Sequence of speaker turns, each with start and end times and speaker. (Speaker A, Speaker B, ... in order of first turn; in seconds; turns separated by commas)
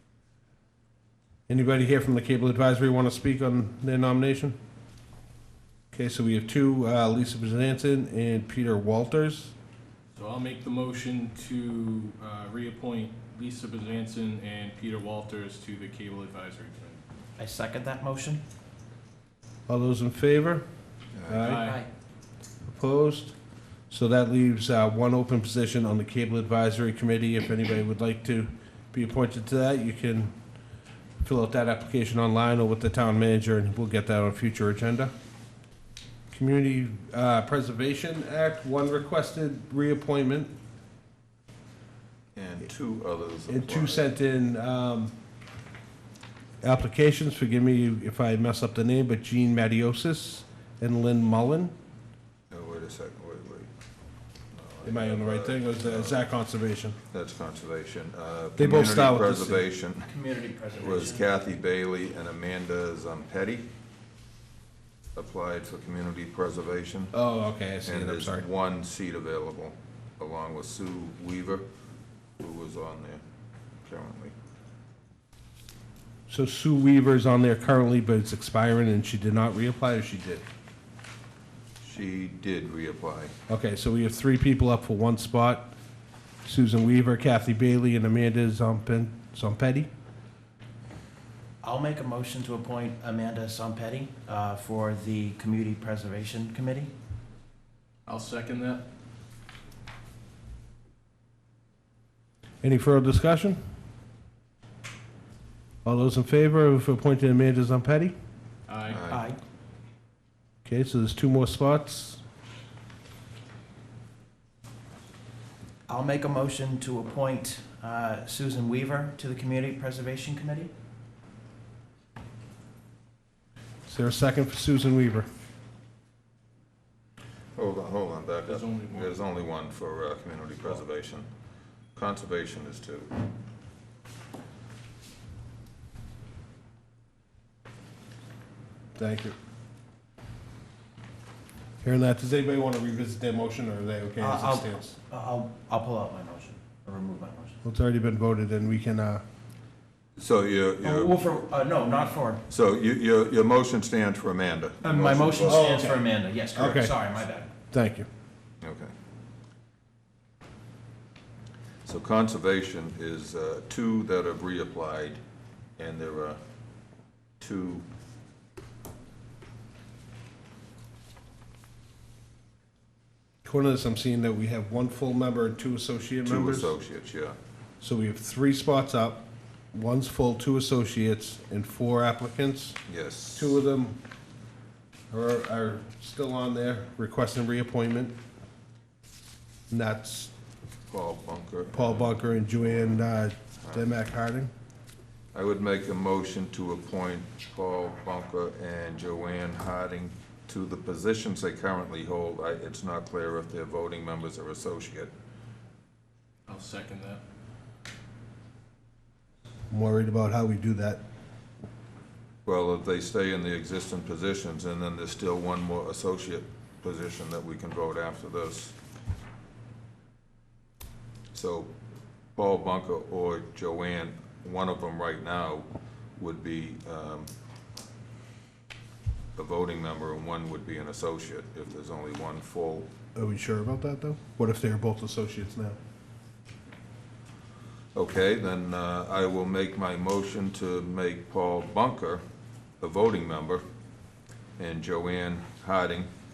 Speaker A: 1.5-4.5, Speaker A: 5.9-9.5, Speaker B: 10.1-17.0, Speaker C: 17.4-18.4, Speaker A: 19.7-20.6, Speaker D: 21.1-21.6, Speaker A: 21.3-21.6, Speaker B: 21.4-21.8, Speaker C: 21.6-21.9, Speaker A: 22.6-23.3, Speaker A: 23.9-30.3, Speaker A: 31.2-35.1, Speaker A: 36.3-40.5, Speaker D: 42.3-44.0, Speaker A: 43.5-45.1, Speaker A: 46.6-51.7, Speaker D: 52.5-53.7, Speaker D: 54.5-56.2, Speaker A: 54.8-57.0, Speaker D: 57.1-60.1, Speaker A: 58.6-59.6, Speaker C: 60.1-61.2, Speaker D: 60.8-63.6, Speaker D: 65.1-67.1, Speaker A: 67.1-68.5, Speaker D: 67.8-71.6, Speaker D: 72.4-73.2, Speaker D: 73.8-74.3, Speaker A: 76.3-80.4, Speaker D: 81.8-83.3, Speaker A: 83.5-85.7, Speaker A: 86.4-89.9, Speaker C: 91.6-96.9, Speaker B: 98.0-98.8, Speaker A: 102.6-103.6, Speaker A: 105.8-108.1, Speaker B: 108.7-109.0, Speaker D: 108.9-109.2, Speaker C: 109.1-109.4, Speaker A: 110.6-112.2, Speaker C: 115.9-120.7, Speaker A: 123.9-125.3, Speaker D: 127.5-131.3, Speaker B: 128.5-129.1, Speaker D: 131.9-133.1, Speaker A: 138.9-139.3, Speaker A: 141.8-144.9, Speaker C: 144.2-147.6, Speaker A: 147.6-149.2, Speaker D: 150.2-151.4, Speaker C: 150.8-152.4, Speaker D: 152.5-155.9, Speaker C: 154.8-157.5, Speaker A: 155.4-156.9, Speaker A: 157.7-158.1, Speaker D: 158.6-158.9, Speaker D: 161.8-165.2, Speaker D: 165.8-166.4, Speaker D: 167.4-167.8, Speaker A: 173.4-176.7, Speaker D: 176.2-177.3, Speaker A: 177.8-182.8, Speaker D: 182.9-183.6, Speaker A: 183.3-184.0, Speaker A: 185.1-188.1, Speaker A: 189.7-190.3, Speaker D: 190.9-193.1, Speaker A: 191.7-194.5, Speaker D: 193.6-193.9, Speaker D: 195.3-205.1, Speaker B: 206.5-207.2, Speaker A: 209.7-211.0, Speaker D: 212.4-218.7, Speaker D: 221.3-221.7, Speaker D: 222.3-227.3, Speaker D: 229.3-232.9, Speaker A: 233.1-235.8, Speaker D: 237.9-242.2, Speaker D: 242.8-243.6, Speaker D: 244.6-246.1